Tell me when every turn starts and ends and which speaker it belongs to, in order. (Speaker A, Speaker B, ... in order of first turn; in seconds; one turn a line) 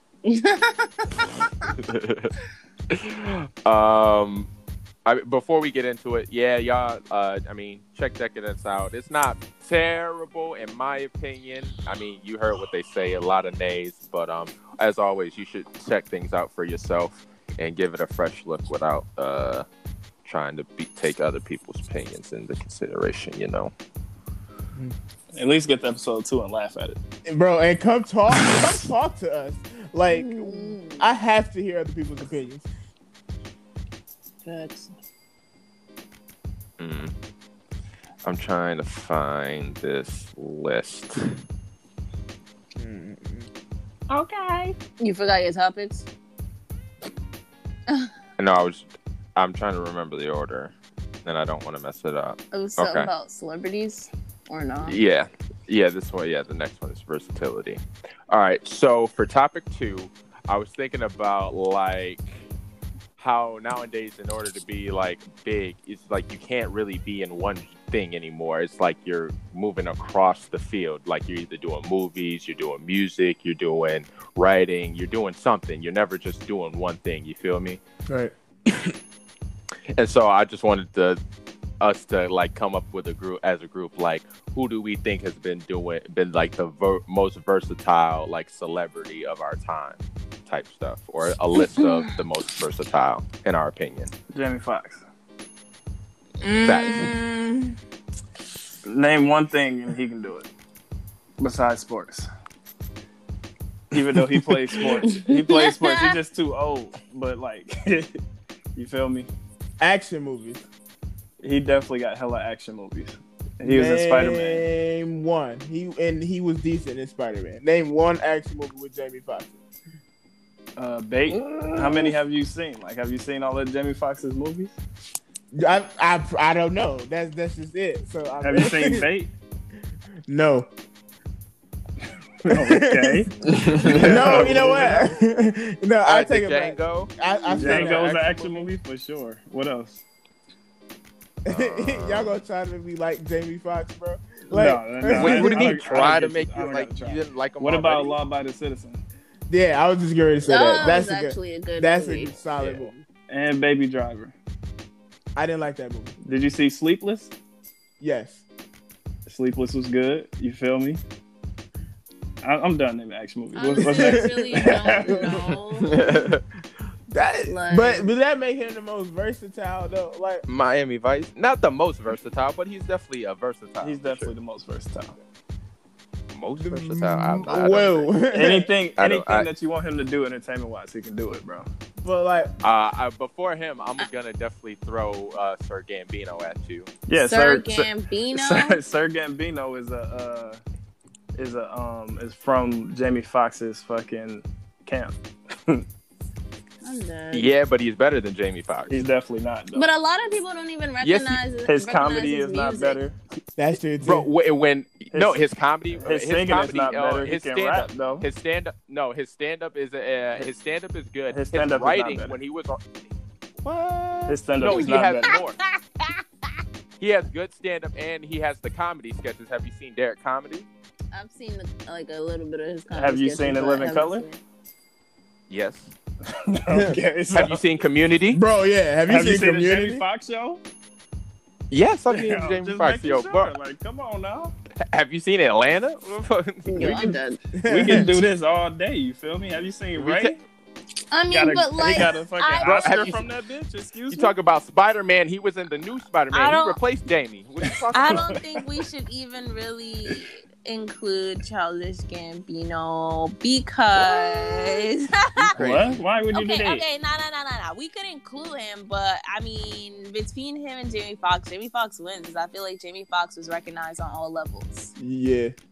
Speaker A: 0.2-1.7
Speaker B: 1.8-2.3
Speaker B: 2.9-4.5
Speaker B: 5.1-19.7
Speaker B: 20.2-23.7
Speaker C: 25.3-27.0
Speaker D: 27.3-32.7
Speaker A: 30.1-31.1
Speaker A: 34.5-34.9
Speaker B: 36.8-37.1
Speaker B: 38.2-41.4
Speaker D: 42.8-43.5
Speaker A: 44.1-46.1
Speaker B: 48.4-50.7
Speaker B: 51.2-53.1
Speaker A: 52.5-55.0
Speaker B: 54.8-62.4
Speaker B: 63.2-77.8
Speaker B: 80.0-81.2
Speaker B: 81.8-94.1
Speaker A: 91.6-92.1
Speaker C: 94.3-95.0
Speaker A: 96.4-97.7
Speaker B: 96.6-97.1
Speaker C: 98.8-100.5
Speaker C: 101.4-102.3
Speaker C: 103.9-108.2
Speaker A: 105.0-106.2
Speaker C: 108.8-109.3
Speaker D: 109.8-110.6
Speaker C: 111.4-114.7
Speaker D: 113.6-119.6
Speaker C: 120.8-124.7
Speaker D: 121.5-122.1
Speaker D: 125.5-129.1
Speaker C: 128.4-129.3
Speaker D: 130.3-130.7
Speaker C: 132.4-135.0
Speaker D: 132.5-133.2
Speaker B: 133.5-135.0
Speaker D: 133.8-138.4
Speaker B: 136.1-138.6
Speaker C: 137.5-140.0
Speaker D: 141.4-145.9
Speaker B: 141.5-142.4
Speaker C: 144.5-149.0
Speaker B: 145.1-148.2
Speaker D: 149.5-152.9
Speaker A: 150.4-152.4
Speaker B: 152.6-152.9
Speaker C: 153.3-154.3
Speaker D: 155.4-156.2
Speaker C: 156.2-157.3
Speaker D: 158.0-158.4
Speaker C: 159.3-161.0
Speaker C: 162.4-165.3
Speaker A: 163.5-166.1
Speaker D: 163.8-165.5
Speaker B: 165.8-166.4
Speaker D: 167.1-170.4
Speaker A: 167.5-168.1
Speaker B: 170.5-174.3
Speaker C: 173.8-175.2
Speaker B: 176.3-178.1
Speaker D: 176.6-178.7
Speaker C: 178.3-181.7
Speaker B: 179.0-179.5
Speaker D: 182.0-182.6
Speaker B: 182.6-186.9
Speaker C: 187.1-190.6
Speaker A: 187.2-188.8
Speaker C: 191.4-195.8
Speaker A: 196.8-197.5
Speaker B: 197.3-198.9
Speaker C: 198.9-199.9
Speaker A: 199.8-203.0
Speaker B: 201.0-201.4
Speaker C: 201.7-203.2
Speaker D: 203.6-204.3
Speaker B: 204.0-212.8
Speaker C: 205.1-205.4
Speaker C: 206.0-208.3
Speaker C: 211.3-212.4
Speaker B: 213.6-215.6
Speaker C: 214.3-215.4
Speaker A: 214.6-215.4
Speaker B: 217.0-220.7
Speaker A: 221.1-224.4
Speaker C: 222.9-224.2
Speaker B: 225.5-225.9
Speaker C: 226.3-227.6
Speaker D: 226.7-227.0
Speaker B: 227.3-228.4
Speaker D: 228.3-230.1
Speaker C: 229.1-230.6
Speaker B: 231.7-233.5
Speaker C: 232.1-234.6
Speaker B: 234.9-237.1
Speaker A: 236.7-237.4
Speaker D: 236.8-238.2
Speaker C: 237.7-240.4
Speaker B: 239.9-240.4
Speaker A: 241.1-243.2
Speaker C: 241.3-244.3
Speaker B: 242.6-243.2
Speaker B: 244.1-248.3
Speaker A: 246.3-246.8
Speaker A: 247.9-255.6
Speaker C: 248.0-248.7
Speaker B: 255.6-256.0
Speaker C: 255.6-256.9
Speaker A: 256.3-264.9
Speaker D: 265.0-265.6